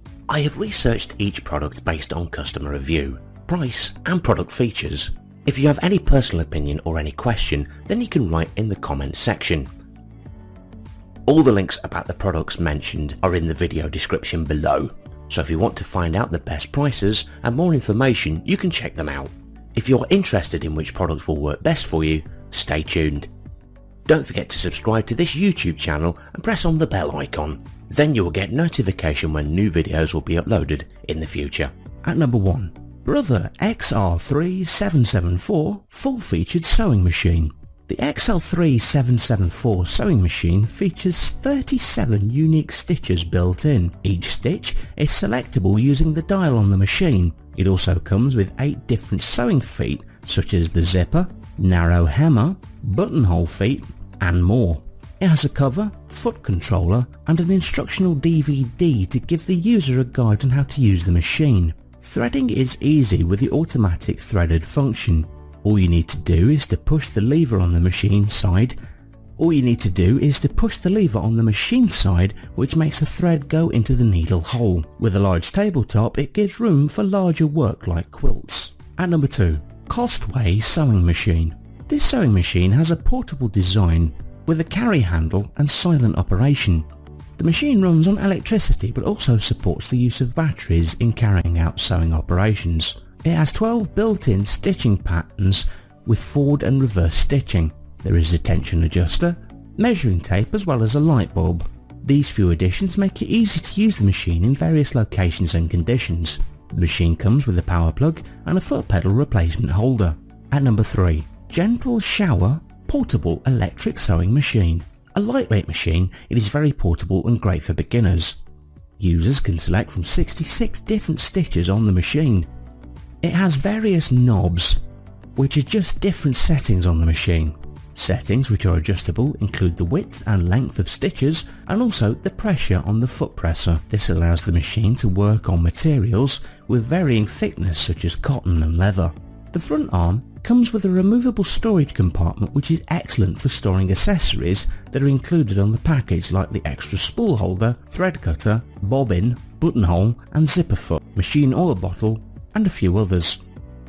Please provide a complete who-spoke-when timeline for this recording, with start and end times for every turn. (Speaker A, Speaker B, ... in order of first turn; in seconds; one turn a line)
Speaker A: 0.3-9.7
Speaker A: 11.3-23.3
Speaker A: 24.1-68.8
Speaker A: 69.4-118.4
Speaker A: 119.0-122.5
Speaker A: 123.2-124.8
Speaker A: 125.3-153.4